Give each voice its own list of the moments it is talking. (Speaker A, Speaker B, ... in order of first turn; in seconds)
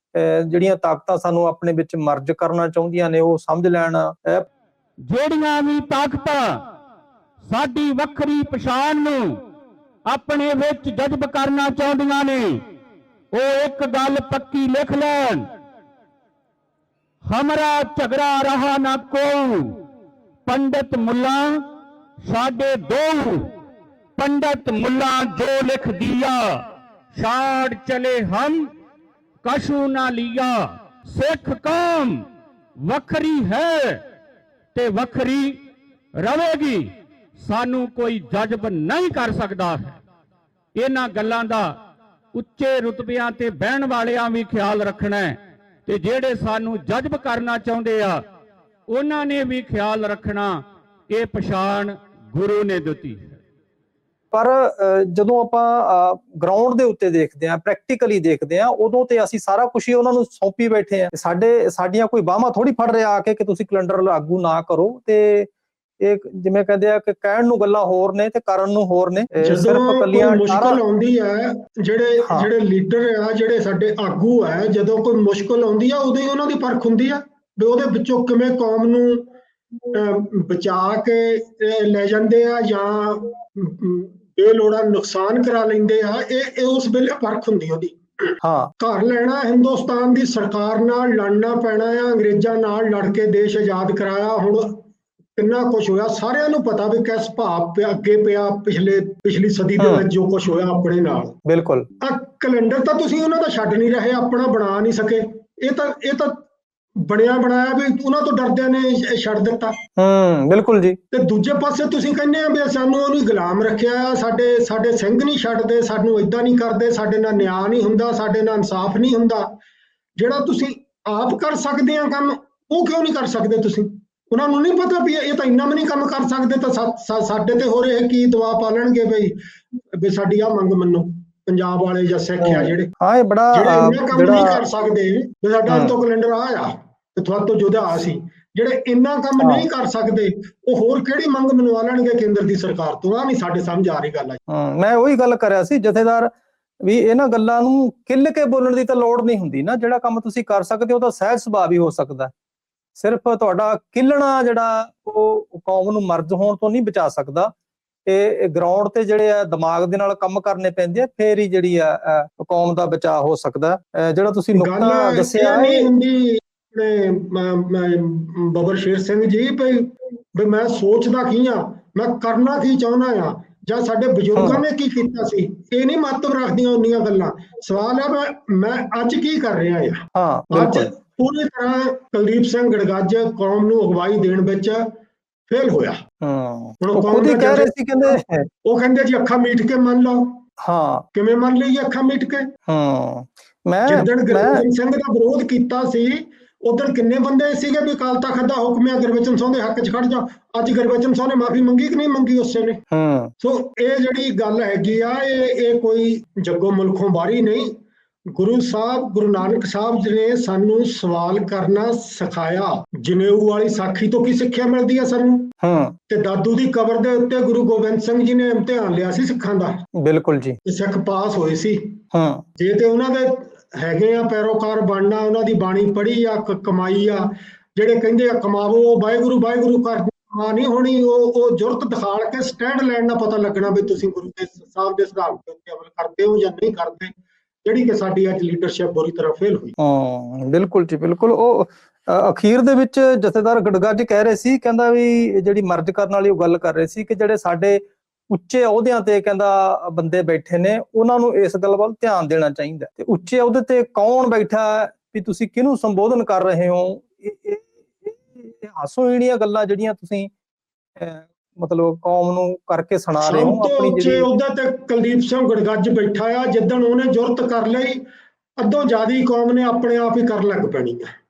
Speaker A: 0.1-4.5, 54.3-65.5, 66.0-70.8, 88.4-88.7, 99.8-100.0, 101.5-101.9, 110.0-111.0, 132.4-134.6, 135.7-135.9, 139.4-139.6, 144.5-146.3, 146.8-152.3, 152.9-157.5, 158.1-165.9, 174.3-174.6, 180.1-180.9, 186.2-188.5, 190.6-191.0, 192.7-194.6, 202.9-203.3, 215.6-215.9, 220.0-220.6, 222.1-222.4, 239.8-260.3, 261.0-264.3
Speaker B: 5.1-6.6, 7.4-9.3, 10.1-12.6, 13.3-15.5, 17.3-19.8, 20.4-21.6, 22.2-23.5, 24.2-26.6, 27.1-28.7, 29.4-32.2, 32.8-34.0, 34.7-35.6, 36.2-40.0, 40.8-41.7, 42.3-48.2, 48.9-53.4
Speaker C: 69.4-79.2, 79.9-88.3, 88.8-94.8, 95.3-101.3, 102.0-106.3, 107.1-109.7, 111.1-119.5, 120.2-129.3, 130.0-132.9, 133.5-144.4, 164.5-180.0, 180.5-184.8, 185.5-186.0, 186.8-190.4, 191.1-192.4, 193.9-202.8, 203.4-207.7, 208.3-215.5, 216.1-219.7, 220.6-221.9, 222.6-237.1, 237.6-239.7, 263.2-268.0, 268.6-271.1